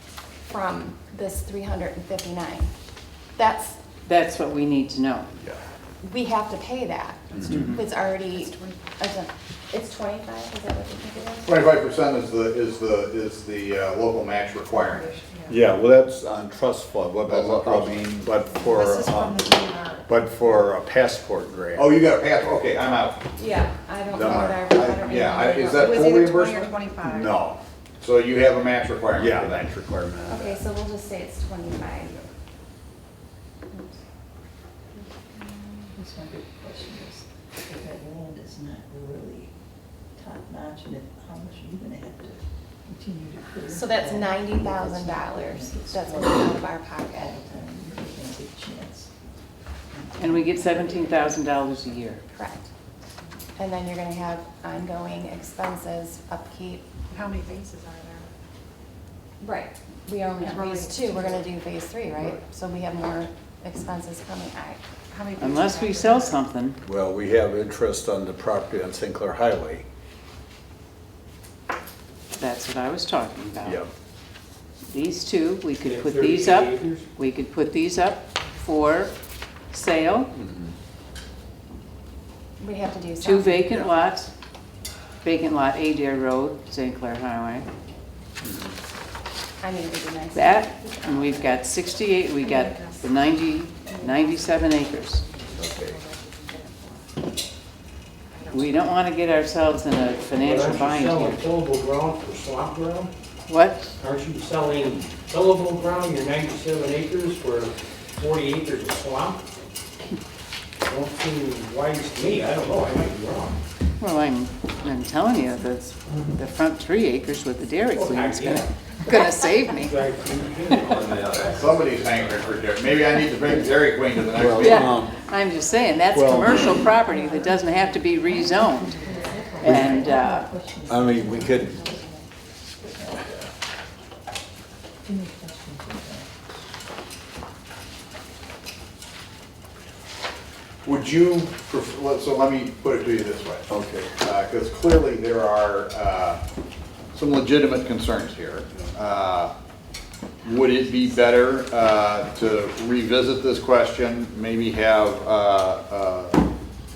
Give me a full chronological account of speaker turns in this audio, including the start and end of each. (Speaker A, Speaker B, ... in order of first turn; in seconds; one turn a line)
Speaker A: 0.5-2.7
Speaker A: 3.4-3.8
Speaker B: 4.1-5.3
Speaker A: 6.0-11.6
Speaker B: 7.3-7.8
Speaker C: 8.3-8.9
Speaker D: 11.4-15.2
Speaker C: 14.9-15.6
Speaker E: 15.5-22.0
Speaker D: 17.3-18.2
Speaker C: 18.7-20.0
Speaker D: 21.8-23.2
Speaker A: 23.4-26.4
Speaker E: 24.1-24.7
Speaker D: 24.2-26.9
Speaker C: 25.7-27.3
Speaker E: 27.0-27.6
Speaker D: 28.0-29.7
Speaker E: 29.1-30.6
Speaker A: 30.3-32.2
Speaker A: 33.7-34.0
Speaker F: 35.9-39.5
Speaker F: 40.2-46.4
Speaker A: 43.7-47.4
Speaker F: 47.3-49.1
Speaker F: 49.9-50.7
Speaker B: 50.2-52.2
Speaker A: 52.3-52.7
Speaker A: 53.5-56.9
Speaker C: 57.1-58.3
Speaker A: 59.4-64.8
Speaker C: 60.4-61.5
Speaker C: 65.1-66.4
Speaker B: 65.4-66.8
Speaker E: 66.8-69.8
Speaker B: 72.3-73.8
Speaker E: 73.6-73.9
Speaker B: 74.9-79.1
Speaker G: 75.8-77.0
Speaker B: 79.7-80.3
Speaker E: 80.3-80.7
Speaker A: 82.6-83.7
Speaker B: 83.2-84.3
Speaker B: 85.2-87.7
Speaker E: 88.4-88.8
Speaker A: 89.6-91.4
Speaker B: 90.3-95.2
Speaker C: 92.4-97.1
Speaker E: 95.5-96.0
Speaker C: 98.3-98.9
Speaker B: 98.5-101.5
Speaker G: 100.4-103.1
Speaker B: 103.5-103.9
Speaker G: 104.0-109.4
Speaker G: 110.8-113.6
Speaker B: 114.0-120.0
Speaker G: 117.9-118.7
Speaker G: 119.6-121.5
Speaker B: 120.7-121.0
Speaker D: 120.9-125.0
Speaker E: 121.0-121.5
Speaker E: 124.3-125.1
Speaker B: 124.6-129.1
Speaker E: 126.1-126.8
Speaker F: 128.2-133.4
Speaker C: 129.1-129.5
Speaker B: 129.6-130.5
Speaker E: 129.6-129.9
Speaker E: 130.9-131.8
Speaker F: 135.1-136.3
Speaker D: 140.8-146.4
Speaker E: 143.7-144.1
Speaker D: 147.1-149.5
Speaker D: 150.4-156.4